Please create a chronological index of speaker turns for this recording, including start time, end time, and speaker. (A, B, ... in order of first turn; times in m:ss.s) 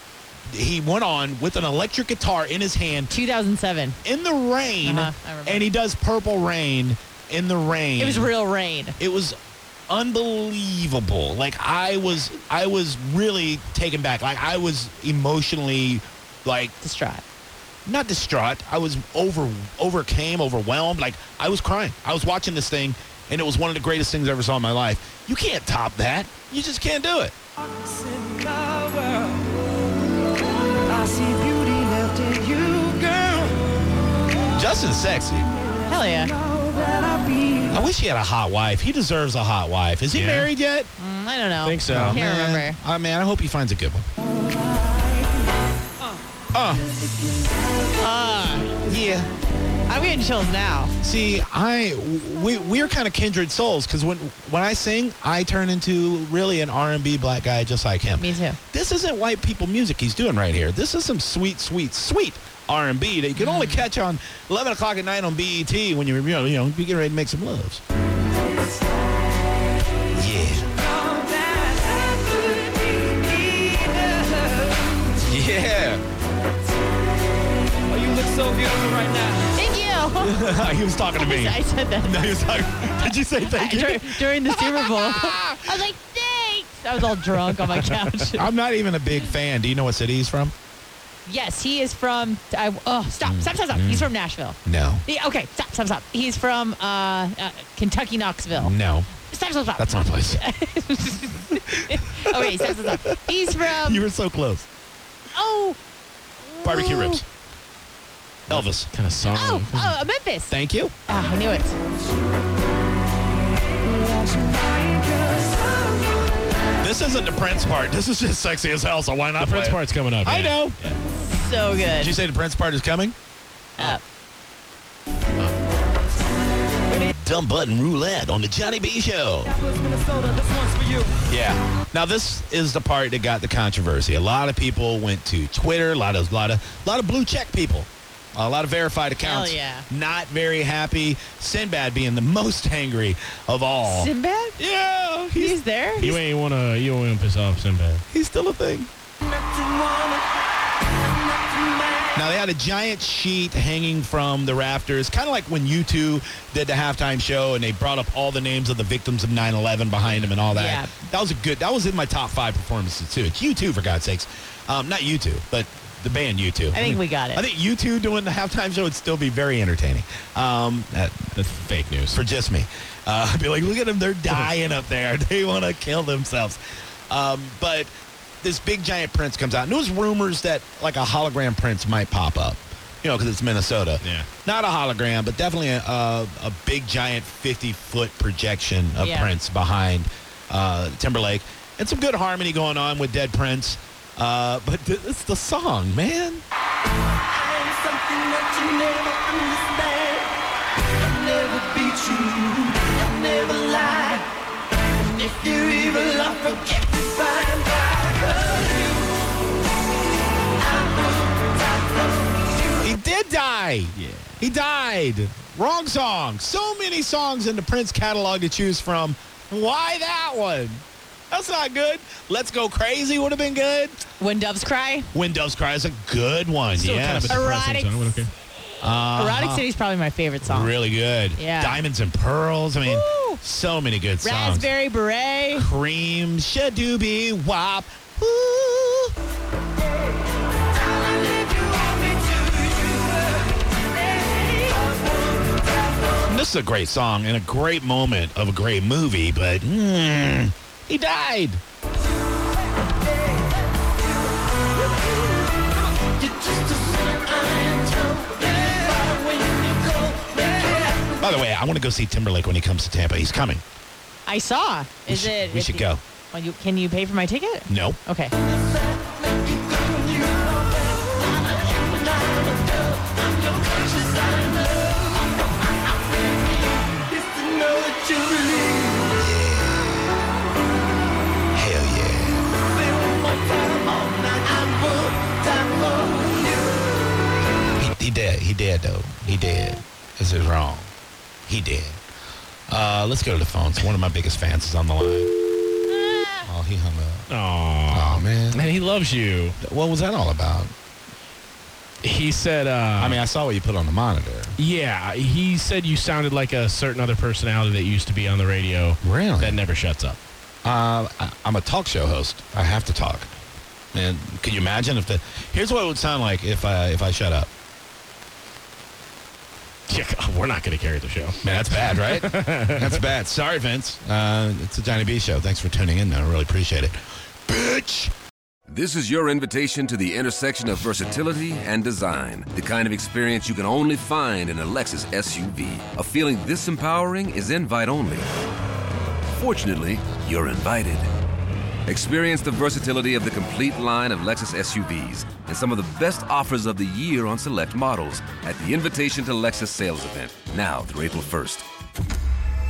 0:00.5-0:03.1 A
0:03.1-0:04.0 B
0:04.0-0:08.3 A
0:04.8-0:05.7 B
0:08.0-0:09.0 B
0:09.0-0:09.4 A
0:09.9-0:16.7 A
0:16.8-0:17.2 B
0:17.9-0:27.3 A
0:27.6-0:29.5 C
0:30.9-0:33.6 C
0:34.5-0:35.5 A
0:35.9-0:36.4 B
0:36.3-0:37.8 C
0:37.7-0:40.9 A
0:40.1-0:40.5 D
0:41.0-0:42.8 B
0:41.6-0:42.2 D
0:41.9-0:44.1 A
0:46.5-0:46.8 A
0:48.0-0:48.8 B
0:48.8-0:49.3 A
0:49.9-0:50.9 B
0:51.0-1:07.8 A
0:58.2-0:58.6 B
1:03.4-1:03.9 B
1:10.2-1:10.7 A
1:10.8-1:15.2 C
1:15.3-1:16.0 A
1:17.9-1:19.6 C
1:19.6-1:20.6 B
1:20.2-1:25.8 A
1:21.2-1:28.5 B
1:28.4-1:30.5 A
1:31.3-1:38.8 B
1:33.2-1:34.1 A
1:34.6-1:35.0 A
1:38.5-1:39.1 A
1:39.3-1:44.0 B
1:39.8-1:40.4 A
1:42.2-1:44.7 A
1:45.3-1:45.8 B
1:46.4-1:47.2 B
1:46.6-1:47.2 A
1:48.5-1:48.9 A
1:48.5-1:50.0 D
1:49.3-1:50.6 B
1:50.5-1:50.9 A
1:51.1-1:51.8 B
1:53.9-1:56.0 C
1:56.8-2:00.8 A
1:59.4-2:01.0 D
2:01.2-2:02.2 B
2:02.0-2:03.2 A
2:07.1-2:09.5 A
2:09.6-2:11.2 C
2:11.3-2:26.2 A
2:19.2-2:19.9 B
2:23.8-2:24.6 B
2:25.4-2:26.1 B
2:26.0-2:28.0 D
2:28.1-2:28.9 A
2:29.2-2:30.3 C
2:31.5-2:32.1 C
2:32.2-2:51.2 A
2:40.5-2:40.9 B
2:46.7-2:47.4 B
2:51.4-2:52.2 D
2:52.1-2:56.6 A
2:57.1-2:57.9 A
2:58.4-3:16.4 A
3:04.0-3:04.3 D
3:09.0-3:09.3 B
3:17.3-3:20.3 C
3:21.0-3:24.3 C
3:25.0-3:29.1 C
3:30.6-3:32.0 C
3:32.8-3:44.0 A
3:34.0-3:34.4 D
3:44.2-3:45.1 B
3:45.1-3:47.5 A
3:46.8-3:48.3 D
3:47.3-3:48.2 B
3:48.8-3:49.7 A
3:49.2-3:50.7 B
3:50.4-3:54.7 A
3:51.4-3:51.8 B
3:52.9-3:53.4 B
3:54.2-3:55.7 B
3:55.5-3:59.1 A
4:01.1-4:03.5 C
4:04.2-4:05.6 C
4:06.2-4:11.6 A
4:16.2-4:20.8 C
4:21.1-4:23.6 A
4:24.3-4:28.3 B
4:25.1-4:26.0 A
4:27.7-4:28.0 A
4:29.0-4:35.1 C
4:37.1-4:39.1 C
4:39.1-4:40.1 A
4:41.5-4:42.5 A
4:42.7-4:46.7 C
4:47.8-4:50.9 A
4:51.5-4:52.0 A
4:52.7-4:55.3 A
4:55.9-4:56.5 B
4:56.4-4:57.3 A
4:57.3-4:59.6 D
4:57.9-4:58.7 A
4:59.6-5:00.7 A
5:02.0-5:03.2 D
5:03.0-5:04.6 A
5:04.6-5:10.2 D
5:09.0-5:09.6 A
5:10.6-5:13.3 A
5:13.9-5:17.5 A
5:19.9-5:23.0 D
5:21.4-5:27.0 A
5:27.5-5:28.1 A
5:28.7-5:38.3 E
5:39.4-5:41.1 E
5:41.9-5:51.6 E